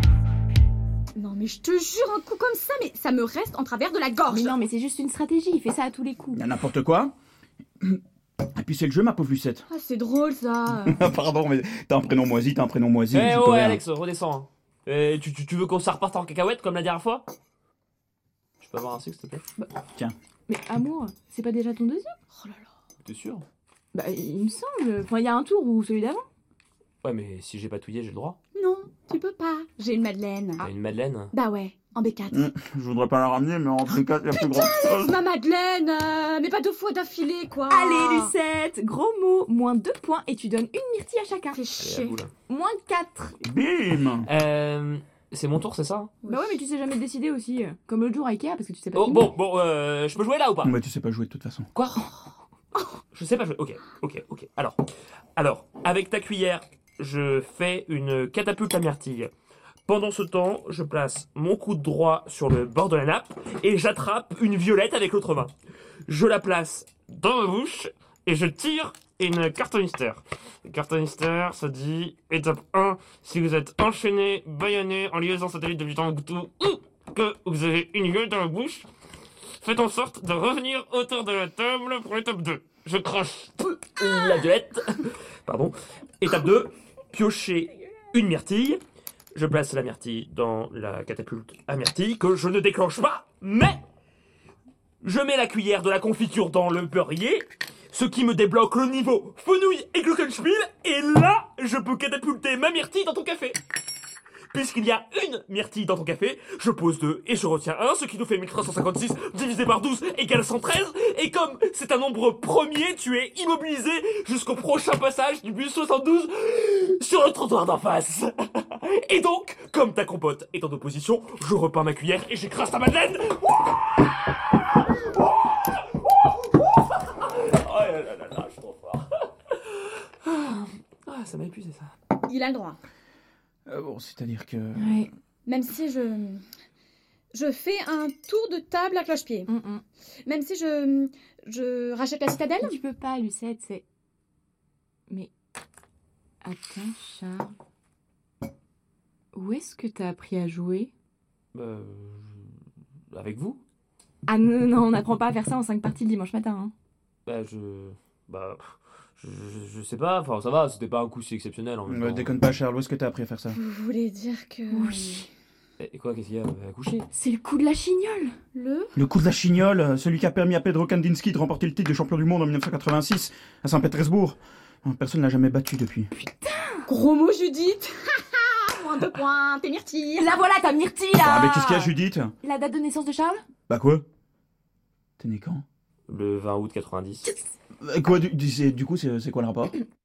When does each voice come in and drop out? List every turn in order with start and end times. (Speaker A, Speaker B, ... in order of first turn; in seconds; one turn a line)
Speaker A: 1.1-4.5
Speaker B: 4.3-6.4
Speaker C: 6.3-7.1
Speaker C: 8.5-9.7
Speaker A: 9.7-11.0
Speaker C: 10.8-13.8
Speaker D: 13.1-17.3
Speaker D: 18.6-19.4
Speaker B: 20.5-22.1
Speaker A: 22.3-22.7
Speaker D: 23.0-23.4
Speaker B: 23.9-26.3
Speaker D: 27.0-28.4
Speaker A: 28.5-30.7
Speaker D: 30.6-31.3
Speaker A: 31.3-32.4
Speaker C: 32.3-35.1
Speaker A: 34.3-38.3
Speaker B: 37.7-41.6
Speaker A: 41.5-42.2
Speaker D: 41.8-42.3
Speaker B: 42.5-43.4
Speaker C: 43.4-44.3
Speaker D: 44.2-46.1
Speaker A: 46.2-46.6
Speaker B: 46.2-49.3
Speaker D: 48.9-50.7
Speaker C: 50.6-51.7
Speaker D: 51.7-52.1
Speaker D: 53.1-59.3
Speaker D: 59.9-65.5
Speaker D: 66.1-78.9
Speaker D: 79.6-88.8
Speaker D: 89.3-93.8
Speaker D: 95.0-103.6
Speaker D: 104.5-123.8
Speaker D: 127.2-131.9
Speaker A: 132.2-132.8
Speaker C: 133.7-135.1
Speaker B: 134.8-135.1
Speaker A: 135.4-136.4
Speaker A: 137.3-139.5
Speaker B: 139.5-139.8
Speaker A: 140.2-142.8
Speaker B: 142.6-143.8
Speaker B: 146.4-147.5
Speaker B: 149.3-150.9
Speaker D: 151.5-152.6
Speaker D: 153.1-153.6
Speaker B: 154.2-156.7
Speaker D: 157.2-162.4
Speaker C: 161.9-163.6
Speaker A: 163.5-165.2
Speaker B: 164.7-165.3
Speaker D: 165.8-167.1
Speaker B: 167.1-168.3
Speaker A: 168.5-168.9
Speaker C: 168.9-176.1
Speaker B: 176.2-176.9
Speaker A: 176.9-180.3
Speaker B: 180.2-183.4
Speaker C: 181.2-182.3
Speaker C: 183.7-184.0
Speaker C: 185.2-185.6
Speaker D: 186.1-187.3
Speaker C: 187.8-189.8